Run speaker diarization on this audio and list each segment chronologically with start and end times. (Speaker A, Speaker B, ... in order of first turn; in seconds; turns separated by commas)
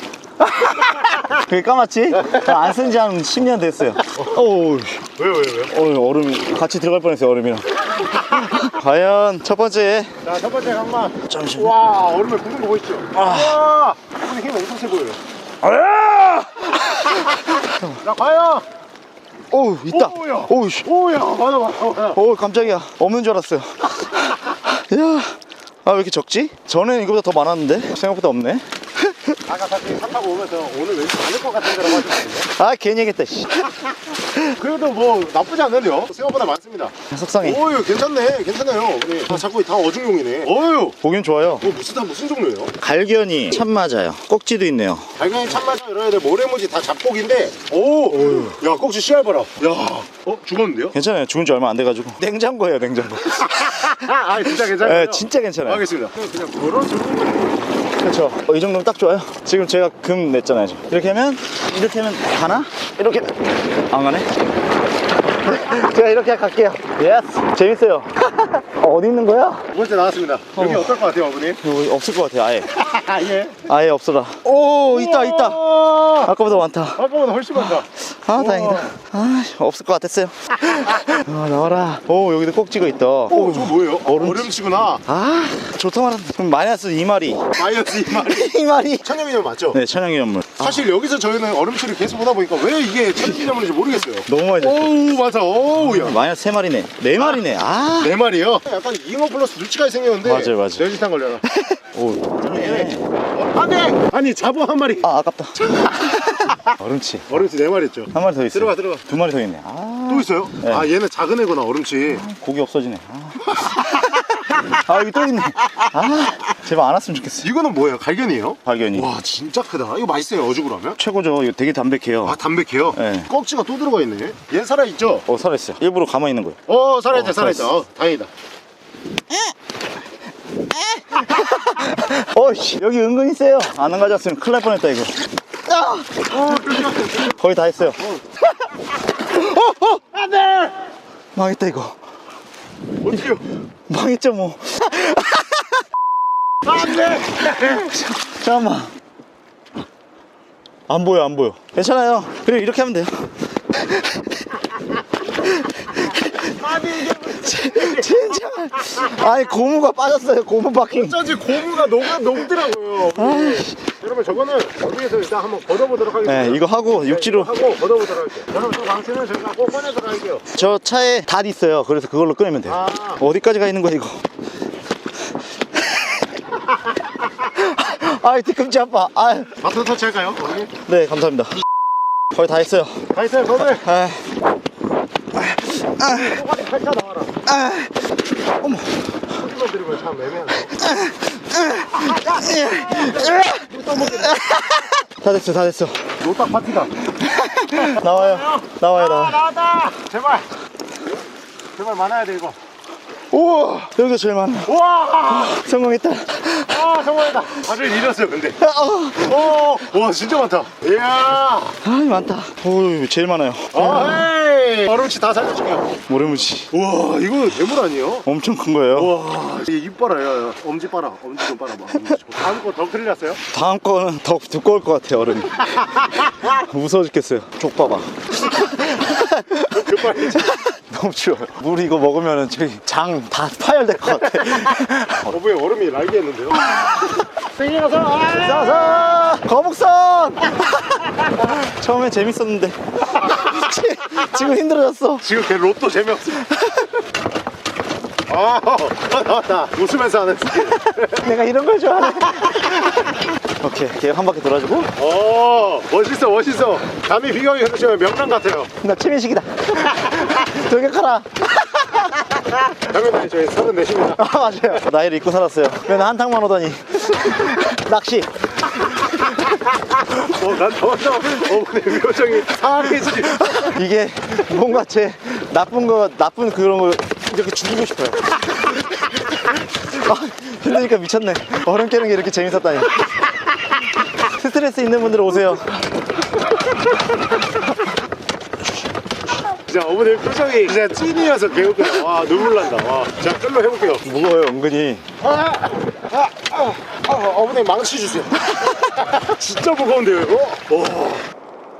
Speaker A: 0.4-5.0, Speaker B: 2.1-2.6, Speaker B: 4.1-4.4, Speaker B: 5.2-5.7, Speaker A: 5.7-10.1, Speaker B: 10.2-15.2, Speaker A: 11.3-11.7, Speaker A: 13.2-13.6, Speaker A: 15.6-18.0, Speaker B: 18.0-18.6, Speaker A: 19.5-20.9, Speaker B: 19.9-22.2, Speaker A: 22.1-29.4, Speaker B: 29.5-32.5, Speaker A: 32.5-33.7, Speaker B: 34.5-41.0, Speaker A: 37.1-37.6, Speaker A: 41.0-41.7, Speaker B: 41.6-42.7, Speaker A: 42.8-45.1, Speaker B: 45.2-51.0, Speaker A: 48.1-48.5, Speaker A: 50.9-53.9, Speaker B: 53.4-57.6, Speaker A: 54.8-55.8, Speaker A: 58.0-64.3, Speaker A: 65.4-69.7, Speaker B: 69.7-71.6, Speaker A: 70.6-70.9, Speaker A: 71.6-72.8, Speaker B: 72.8-73.6, Speaker A: 73.6-77.0, Speaker B: 74.5-78.9, Speaker A: 78.1-84.5, Speaker B: 83.3-85.0, Speaker A: 85.0-87.4, Speaker B: 87.5-89.8, Speaker A: 88.2-89.1, Speaker A: 89.7-90.9, Speaker B: 90.6-96.2, Speaker A: 94.3-95.2, Speaker A: 95.9-98.1, Speaker B: 97.2-97.4, Speaker B: 98.0-101.5, Speaker A: 100.2-100.8, Speaker A: 101.5-103.1, Speaker B: 102.4-105.1, Speaker A: 105.0-105.8, Speaker A: 106.5-107.4, Speaker B: 107.3-109.0, Speaker A: 108.1-110.9, Speaker B: 110.1-112.2, Speaker A: 112.1-117.5, Speaker B: 117.4-121.0, Speaker A: 118.7-119.1, Speaker A: 121.0-122.4, Speaker B: 122.2-125.2, Speaker A: 123.0-123.3, Speaker A: 125.3-126.6, Speaker B: 126.7-128.3, Speaker A: 127.1-127.7, Speaker A: 130.8-138.0, Speaker B: 136.3-137.3, Speaker A: 139.3-139.9, Speaker B: 140.0-140.7, Speaker A: 141.3-141.9, Speaker B: 143.0-143.4, Speaker A: 143.9-145.6, Speaker B: 146.7-147.9, Speaker A: 147.5-148.9, Speaker A: 150.9-153.1, Speaker A: 155.4-156.5, Speaker B: 156.4-158.3, Speaker A: 157.3-161.2, Speaker B: 160.9-170.5, Speaker A: 163.2-163.8, Speaker A: 166.2-167.5, Speaker A: 170.5-174.2, Speaker B: 172.7-173.2, Speaker A: 177.4-179.6, Speaker B: 179.6-180.7, Speaker A: 180.8-181.5, Speaker A: 182.3-183.1, Speaker B: 183.1-183.8, Speaker A: 183.6-184.3, Speaker A: 185.4-186.1, Speaker B: 186.0-187.4, Speaker A: 187.4-188.0, Speaker A: 188.6-189.0, Speaker B: 189.3-190.7, Speaker A: 190.8-193.6, Speaker B: 191.9-194.4, Speaker A: 194.3-196.0, Speaker B: 196.2-196.9, Speaker A: 197.2-199.4, Speaker B: 197.8-200.5, Speaker B: 201.8-202.6, Speaker A: 203.3-204.7, Speaker B: 204.7-205.7, Speaker A: 205.4-206.7, Speaker B: 206.7-208.6, Speaker A: 208.6-209.4, Speaker B: 209.2-211.8, Speaker A: 211.8-214.2, Speaker B: 213.7-216.0, Speaker A: 216.1-216.7, Speaker B: 216.7-218.2, Speaker A: 218.2-219.1, Speaker B: 218.9-223.4, Speaker A: 223.5-225.7, Speaker A: 226.4-235.3, Speaker B: 229.7-230.5, Speaker B: 235.3-236.7, Speaker B: 237.3-239.1, Speaker A: 238.3-245.3, Speaker B: 245.2-246.5, Speaker A: 246.5-246.9, Speaker B: 248.3-251.3, Speaker A: 251.1-254.9, Speaker B: 254.9-258.7, Speaker A: 258.8-261.9, Speaker B: 262.7-264.2, Speaker A: 264.2-268.6, Speaker B: 270.1-273.6, Speaker A: 273.4-278.9, Speaker A: 279.8-283.0, Speaker A: 284.2-285.8, Speaker B: 289.6-294.1, Speaker A: 294.0-295.0, Speaker B: 295.2-301.2